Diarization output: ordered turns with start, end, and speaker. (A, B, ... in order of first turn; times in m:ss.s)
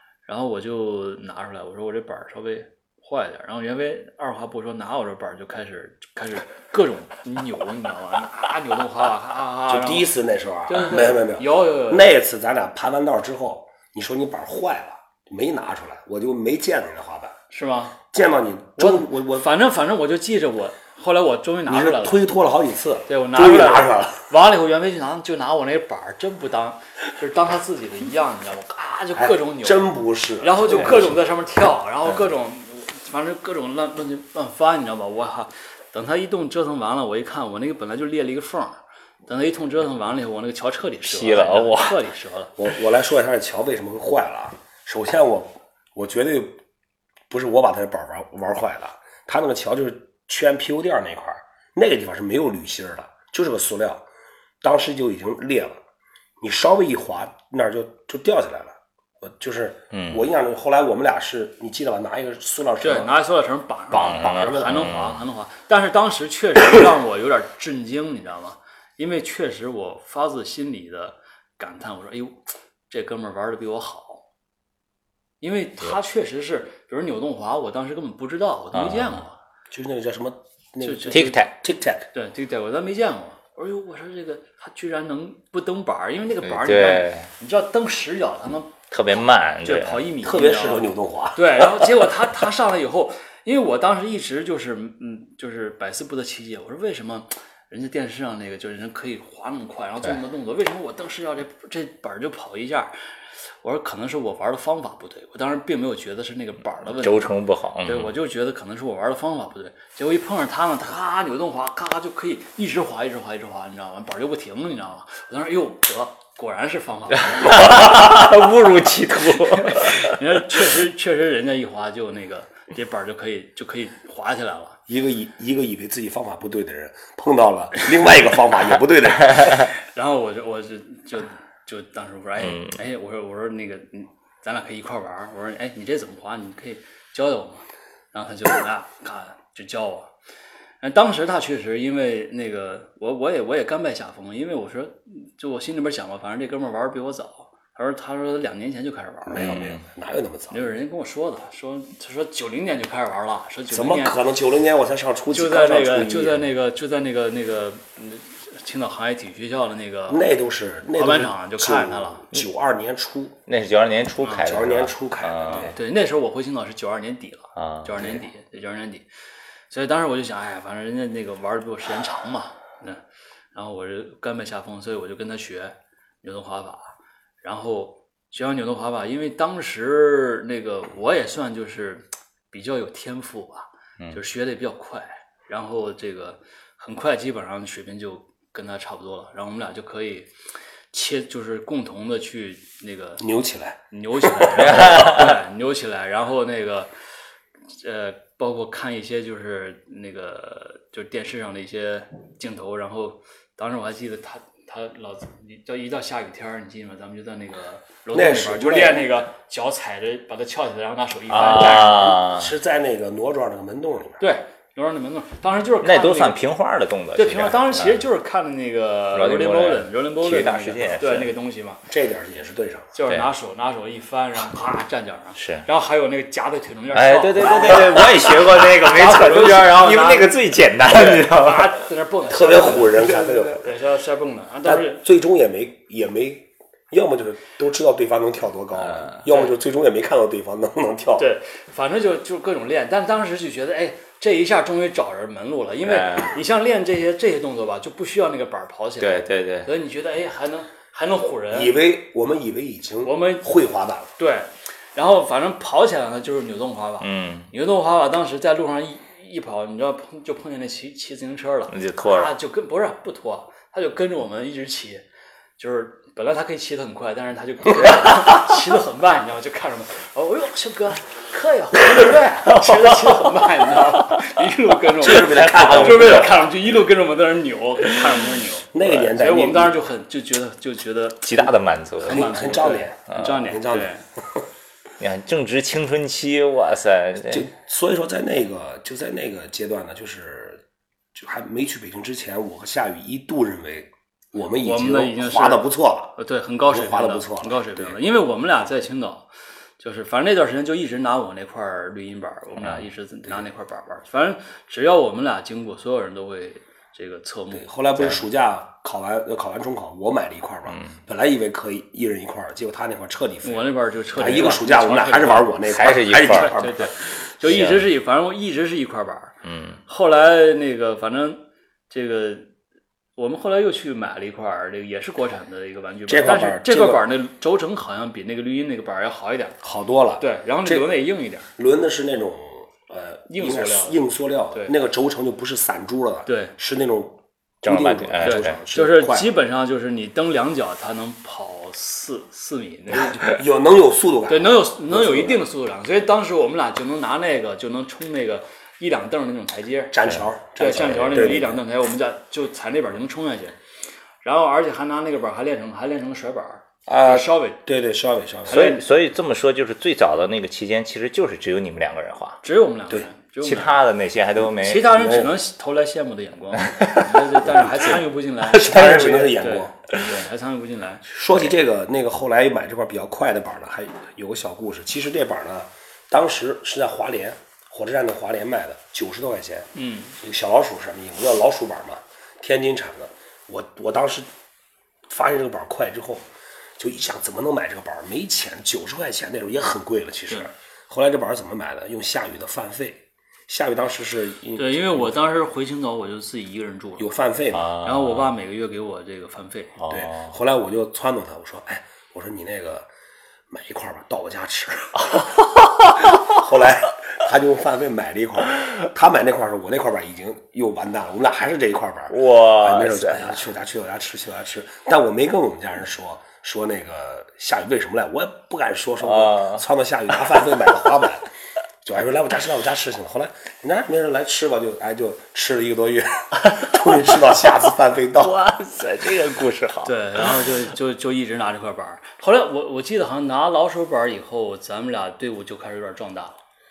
0:00.2-0:10.1 A
0:09.7-0:17.4 B
0:10.7-0:12.1 A
0:17.5-0:18.0 A
0:18.0-0:19.5 B
0:18.8-0:22.2 A
0:21.7-0:24.3 B
0:23.1-0:42.5 A
0:29.1-0:31.2 B
0:41.0-0:42.0 C
0:42.6-0:46.6 B
0:47.3-0:54.0 B
0:54.6-0:55.8 B
0:56.4-1:03.1 B
0:59.9-1:00.2 C
1:02.8-1:14.2 A
1:03.9-1:05.2 C
1:04.1-1:04.9 B
1:15.4-1:19.4 A
1:18.7-1:19.2 C
1:19.7-1:22.1 B
1:20.8-1:21.4 A
1:21.1-1:21.5 C
1:22.1-1:28.8 A
1:26.4-1:27.3 C
1:28.9-1:30.0 C
1:29.6-1:42.9 A
1:30.2-1:31.6 B
1:43.6-1:47.3 A
1:46.9-1:48.1 C
1:47.8-1:57.8 A
1:57.3-2:00.2 C
1:59.5-2:04.8 A
2:04.9-2:09.7 B
2:09.7-2:20.1 A
2:12.4-2:12.7 C
2:20.8-2:29.7 A
2:29.2-2:30.7 B
2:29.3-2:29.8 C
2:30.5-2:34.2 A
2:33.7-2:36.5 B
2:35.3-2:40.2 A
2:40.1-2:43.4 B
2:40.9-2:42.2 A
2:43.5-2:45.7 C
2:44.4-2:45.7 B
2:45.5-2:49.0 A
2:47.6-2:48.0 C
2:48.0-2:48.2 B
2:49.7-2:53.0 A
2:53.5-3:10.3 A
3:10.9-3:13.2 A
3:13.2-3:14.4 B
3:13.9-3:16.9 A
3:14.6-3:15.4 C
3:17.7-3:32.2 A
3:28.1-3:29.1 B
3:31.3-3:32.5 C
3:31.5-3:34.2 B
3:34.2-3:36.4 A
3:35.8-3:38.0 C
3:37.2-3:41.8 A
3:39.1-3:41.3 C
3:41.9-3:42.9 B
3:42.9-3:55.0 A
3:45.4-3:45.6 C
3:46.9-3:51.8 C
3:52.3-3:53.7 B
3:54.6-4:01.3 B
3:58.9-3:59.2 C
4:01.2-4:11.8 A
4:05.8-4:06.4 C
4:09.0-4:09.7 C
4:11.5-4:14.1 B
4:13.0-4:13.5 A
4:14.2-4:25.0 A
4:17.0-4:17.5 C
4:21.7-4:22.3 C
4:25.6-4:44.0 A
4:35.0-4:36.5 B
4:35.1-4:36.5 C
4:38.7-4:39.8 B
4:41.2-4:42.4 C
4:42.0-4:44.4 B
4:43.1-4:43.4 C
4:45.0-4:47.5 C
4:47.2-4:50.6 B
4:51.1-4:56.1 B
4:54.6-4:59.3 A
4:56.7-4:57.9 B
4:59.8-5:07.6 A
5:07.5-5:16.9 B
5:13.4-5:15.5 A
5:15.6-5:16.6 C
5:16.2-5:22.5 A
5:17.4-5:17.9 C
5:19.4-5:19.8 C
5:23.2-5:29.6 A
5:26.1-5:27.0 B
5:29.6-5:30.9 B
5:30.2-5:31.5 A
5:31.6-5:39.3 B
5:33.3-5:34.0 A
5:36.2-5:36.5 A
5:37.6-5:38.6 C
5:38.2-5:43.4 A
5:43.2-5:45.4 B
5:44.3-5:50.0 A
5:49.9-5:51.6 B
5:50.6-5:53.6 A
5:54.2-5:57.6 A
5:56.9-5:58.7 B
5:58.5-5:58.8 A
5:58.5-6:02.4 C
6:02.4-6:03.8 A
6:03.4-6:05.0 C
6:04.4-6:11.0 A
6:04.9-6:05.3 B
6:07.5-6:09.7 B
6:11.1-6:24.3 B
6:19.7-6:20.2 A
6:25.1-6:26.3 B
6:26.8-6:35.1 B
6:34.6-6:37.1 A
6:37.0-6:37.7 B
6:37.5-6:38.3 C
6:37.8-6:39.8 A
6:39.8-6:40.3 C
6:39.9-6:42.9 B
6:43.5-6:45.3 B
6:46.1-7:01.3 B
6:52.1-6:53.4 C
6:59.0-6:59.6 C
7:01.8-7:08.4 B
7:08.2-7:10.4 C
7:09.8-7:16.4 A